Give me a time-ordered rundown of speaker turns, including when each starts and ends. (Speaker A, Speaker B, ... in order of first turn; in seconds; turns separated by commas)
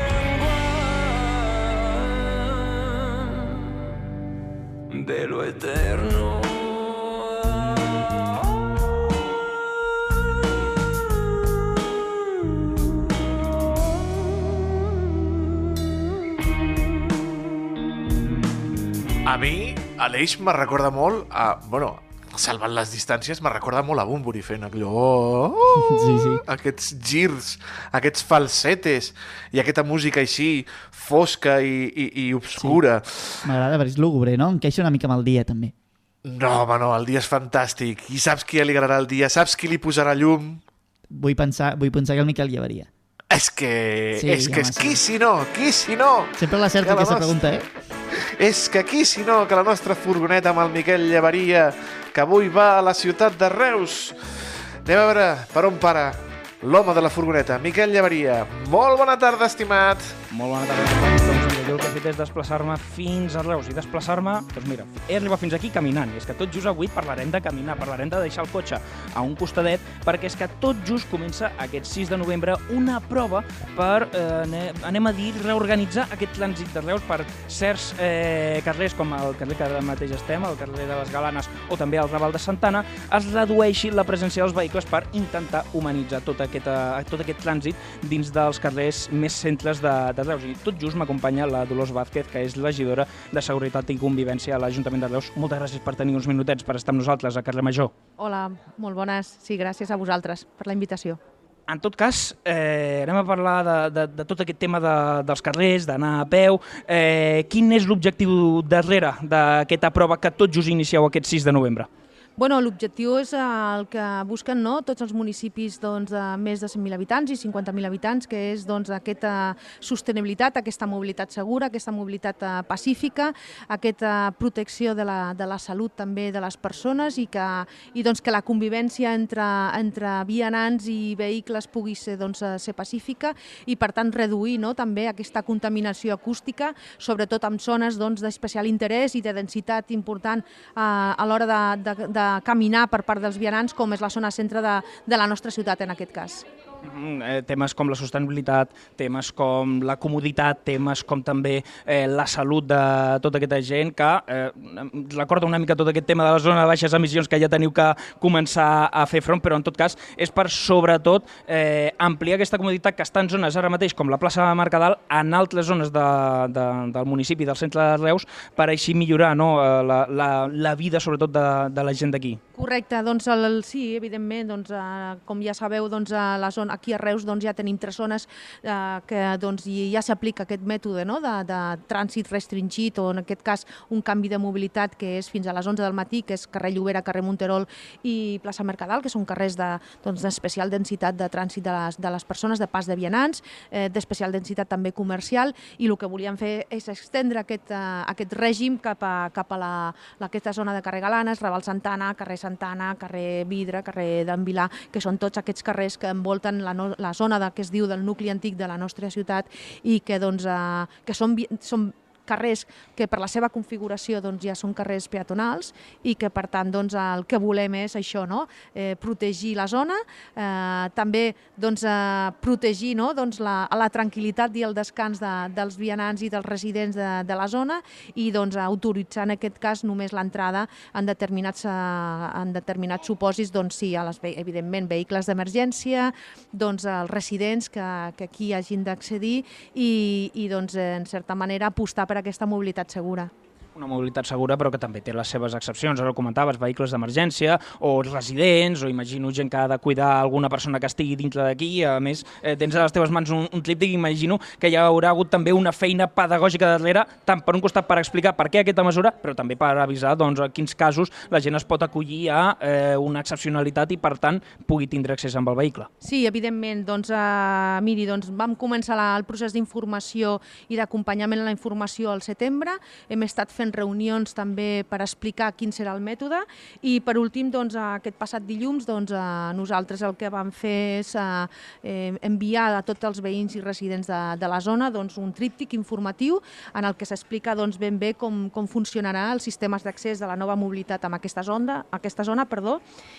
Speaker A: 4.9-7.0, Speaker B: 19.2-33.4, Speaker C: 25.8-26.4, Speaker C: 33.4-35.7, Speaker B: 36.2-40.6, Speaker C: 41.1-42.9, Speaker B: 43.3-47.4, Speaker C: 44.1-45.0, Speaker C: 46.4-47.7, Speaker B: 48.4-60.2, Speaker D: 60.3-97.9, Speaker E: 98.2-101.2, Speaker D: 101.7-111.9, Speaker E: 112.4-146.4, Speaker D: 146.8-172.4, Speaker E: 172.5-243.3, Speaker D: 243.8-265.9, Speaker E: 266.0-292.8